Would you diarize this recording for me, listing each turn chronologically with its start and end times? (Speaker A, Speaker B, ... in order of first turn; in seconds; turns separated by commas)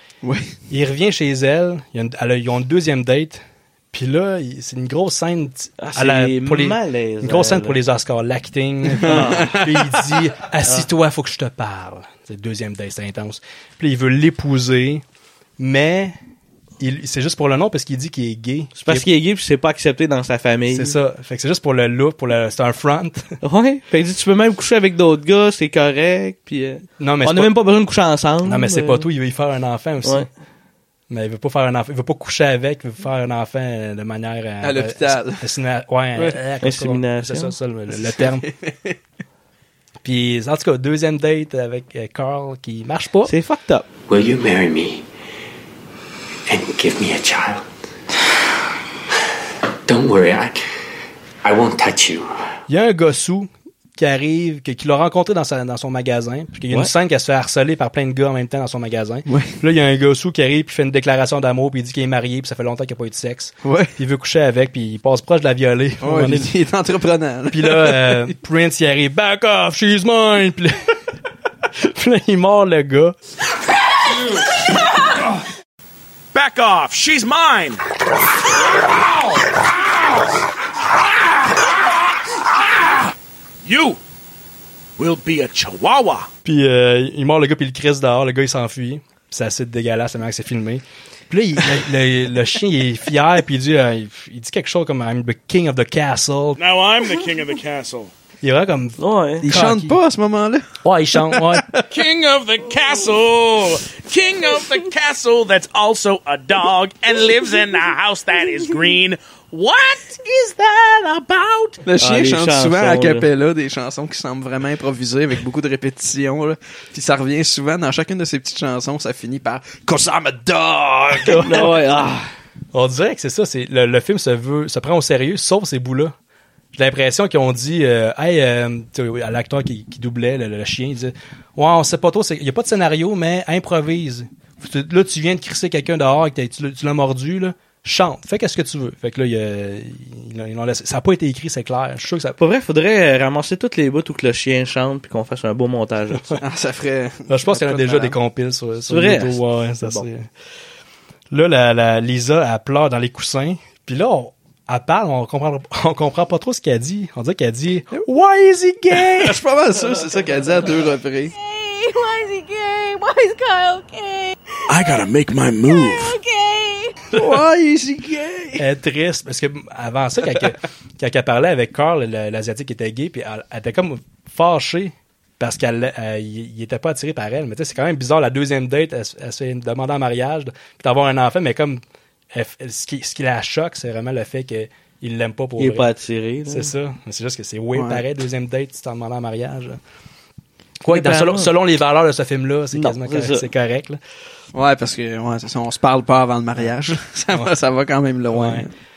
Speaker A: 0.2-0.6, Speaker B: 0.7-15.0, Speaker C: 5.8-7.8, Speaker A: 8.9-9.8, Speaker C: 9.0-9.6, Speaker B: 15.6-16.1, Speaker B: 16.8-19.1, Speaker C: 18.8-21.0, Speaker B: 20.7-23.2, Speaker C: 23.4-29.1, Speaker B: 27.0-27.5, Speaker B: 28.4-30.2, Speaker B: 31.1-38.4, Speaker A: 34.6-35.5, Speaker C: 36.2-37.5, Speaker A: 37.9-39.0, Speaker B: 40.0-43.3, Speaker C: 43.3-43.9, Speaker D: 44.1-45.0, Speaker D: 46.5-47.6, Speaker D: 49.9-50.6, Speaker D: 51.4-52.3, Speaker B: 52.7-66.5, Speaker A: 59.3-59.5, Speaker A: 63.6-63.9, Speaker A: 66.0-68.3, Speaker B: 67.5-70.8, Speaker B: 71.8-73.1, Speaker E: 76.3-77.8, Speaker E: 83.6-84.0, Speaker E: 85.0-86.3, Speaker B: 86.4-96.6, Speaker E: 96.6-98.1, Speaker B: 98.4-100.0, Speaker C: 99.0-99.4, Speaker A: 99.4-101.8, Speaker B: 100.8-101.7, Speaker E: 101.9-111.8, Speaker A: 111.8-121.6, Speaker C: 112.0-113.2, Speaker B: 121.2-121.7, Speaker C: 121.3-122.3, Speaker B: 122.7-126.1, Speaker B: 126.7-142.4, Speaker C: 142.4-146.3, Speaker A: 146.4-148.2, Speaker B: 147.3-150.3, Speaker C: 148.9-150.1, Speaker B: 151.3-159.3, Speaker A: 158.9-161.3, Speaker F: 161.3-164.3, Speaker E: 164.7-166.2, Speaker F: 165.7-167.0, Speaker A: 167.1-168.6, Speaker B: 168.6-181.8, Speaker B: 182.3-185.9, Speaker C: 185.6-186.7, Speaker B: 186.5-189.8, Speaker A: 187.7-188.0, Speaker B: 190.8-194.0, Speaker C: 190.9-191.5, Speaker C: 192.7-193.4, Speaker A: 194.5-198.7, Speaker B: 198.3-198.7